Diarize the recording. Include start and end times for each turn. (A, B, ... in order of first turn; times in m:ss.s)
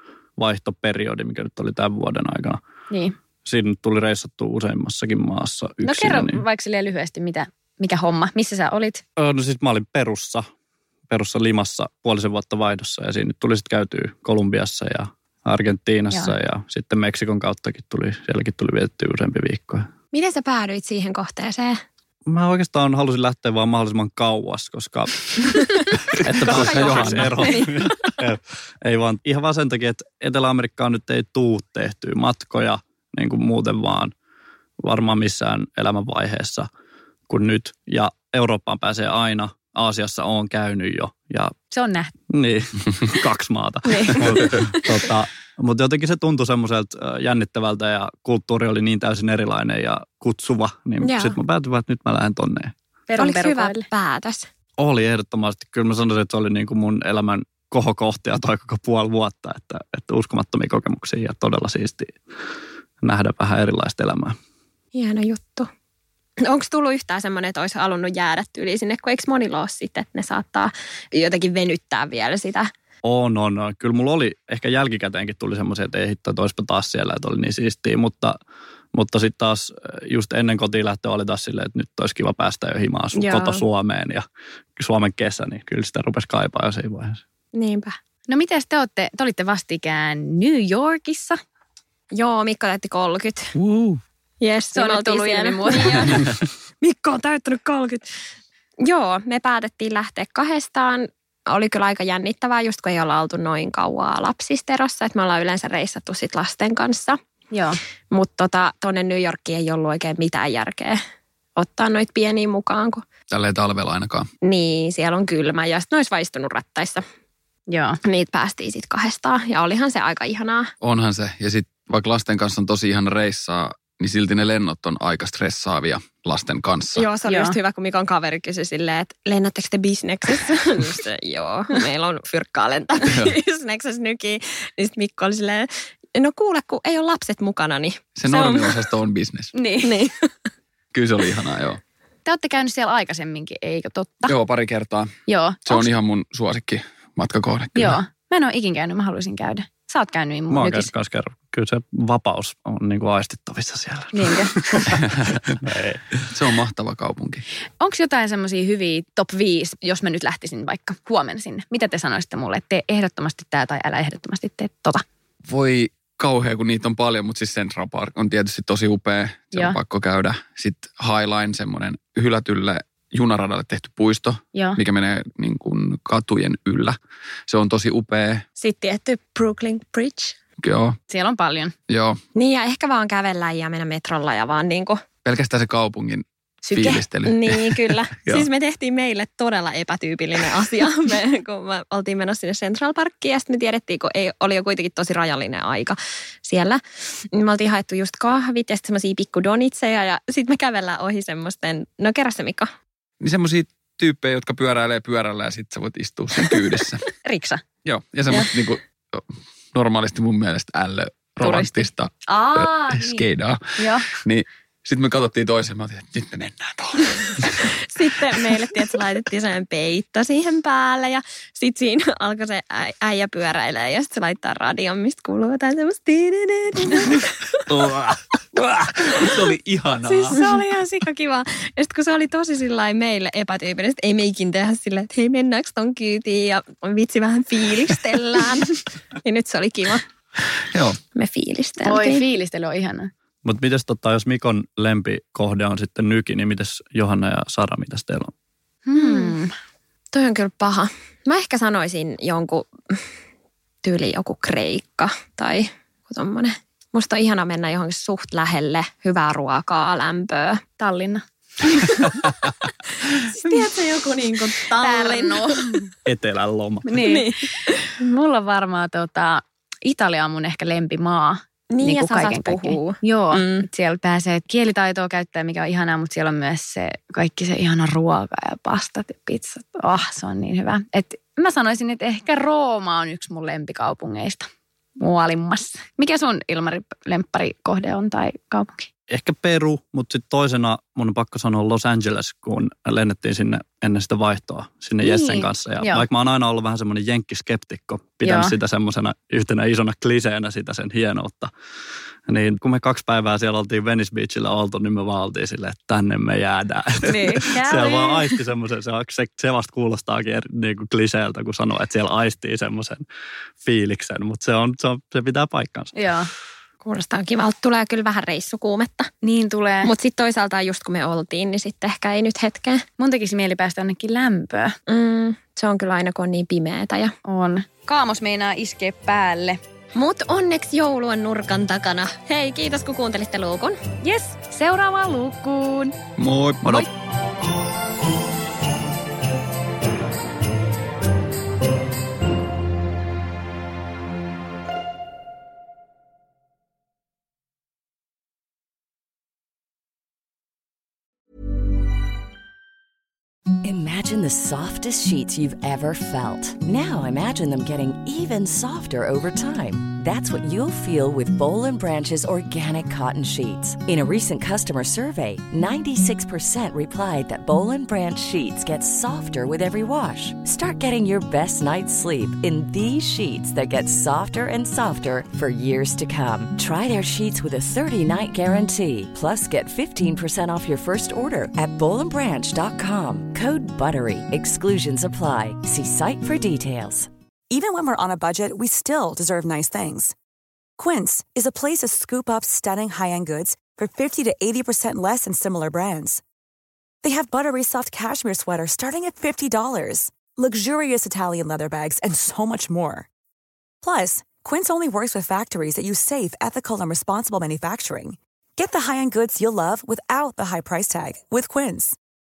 0:00.4-0:02.6 A
0:02.9-0:03.2 B
0:03.4-0:06.4 A
0:05.8-0:09.0 B
0:09.2-0:10.4 A
0:11.1-0:19.9 A
0:20.1-0:21.8 C
0:22.3-0:25.2 A
0:26.1-0:34.1 A
0:26.4-0:28.1 C
0:34.8-0:36.7 A
0:37.3-0:41.5 A
0:41.7-0:42.1 B
0:42.3-0:52.7 A
0:51.0-0:51.4 C
0:53.1-0:53.8 B
0:53.2-0:54.4 C
0:54.8-1:02.1 A
1:03.0-1:04.3 A
1:04.9-1:05.7 C
1:06.4-1:12.7 C
1:13.0-1:18.4 A
1:18.9-1:24.2 A
1:23.1-1:23.6 C
1:24.8-1:27.2 A
1:27.5-1:27.9 C
1:28.3-1:31.4 B
1:32.1-1:33.5 C
1:33.6-1:34.0 D
1:34.4-1:38.1 C
1:34.7-1:36.2 B
1:38.8-1:47.2 C
1:47.5-1:47.8 B
1:48.1-1:51.0 C
1:51.6-1:53.0 C
1:53.3-1:54.2 D
1:54.4-1:57.0 C
1:57.7-1:58.0 B
1:58.0-2:00.7 C
2:00.8-2:07.0 D
2:06.9-2:18.9 C
2:07.2-2:07.6 B
2:18.2-2:19.5 D
2:19.5-2:20.0 B
2:19.8-2:20.1 C
2:20.9-2:21.8 D
2:22.2-2:24.3 B
2:24.3-2:25.1 D
2:25.3-2:25.9 B
2:25.7-2:27.9 D
2:27.7-2:30.9 B
2:30.5-2:36.2 A
2:34.1-2:34.6 B
2:36.3-2:37.4 D
2:37.8-2:45.0 B
2:45.5-2:57.0 D
2:54.5-2:54.8 B
2:57.5-2:58.4 D
2:58.6-3:00.3 C
3:00.6-3:01.0 D
3:01.1-3:01.7 B
3:01.9-3:02.2 D
3:02.3-3:05.0 C
3:05.2-3:06.2 D
3:06.6-3:07.0 B
3:06.7-3:07.8 D
3:06.8-3:16.8 C
3:17.3-3:22.7 C
3:23.2-3:27.0 D
3:27.2-3:27.6 B
3:27.8-3:29.2 D
3:29.7-3:33.6 D
3:31.4-3:31.9 C
3:32.4-3:33.2 C
3:33.8-3:34.1 B
3:34.2-3:37.3 D
3:37.8-3:47.3 C
3:47.7-3:50.3 D
3:50.0-4:00.0 C
4:01.2-4:02.2 C
4:01.8-4:03.1 B
4:03.4-4:08.3 A
4:08.8-4:09.5 B
4:09.0-4:09.3 C
4:10.1-4:13.0 C
4:13.8-4:20.6 C
4:20.8-4:21.2 B
4:23.1-4:25.8 C
4:24.5-4:25.6 B
4:26.0-4:27.0 A
4:26.8-4:27.3 B
4:27.0-4:27.8 C
4:28.0-4:48.8 B
4:31.7-4:33.6 C
4:49.1-5:01.5 A
4:55.0-4:56.0 B
4:58.2-4:58.6 B
5:02.3-5:13.0 A
5:07.0-5:08.4 B
5:13.6-5:15.9 A
5:16.0-5:16.3 B
5:16.8-5:19.1 C
5:19.2-5:19.9 B
5:19.8-5:22.8 C
5:23.0-5:24.8 B
5:24.9-5:27.1 C
5:27.2-5:29.6 B
5:29.9-5:33.8 C
5:34.0-5:36.0 B
5:36.2-5:36.8 D
5:36.6-5:36.9 B
5:53.6-6:27.1 E
6:27.5-6:30.1 F
6:30.8-6:36.2 F
6:37.0-6:43.1 F
6:43.8-6:52.0 F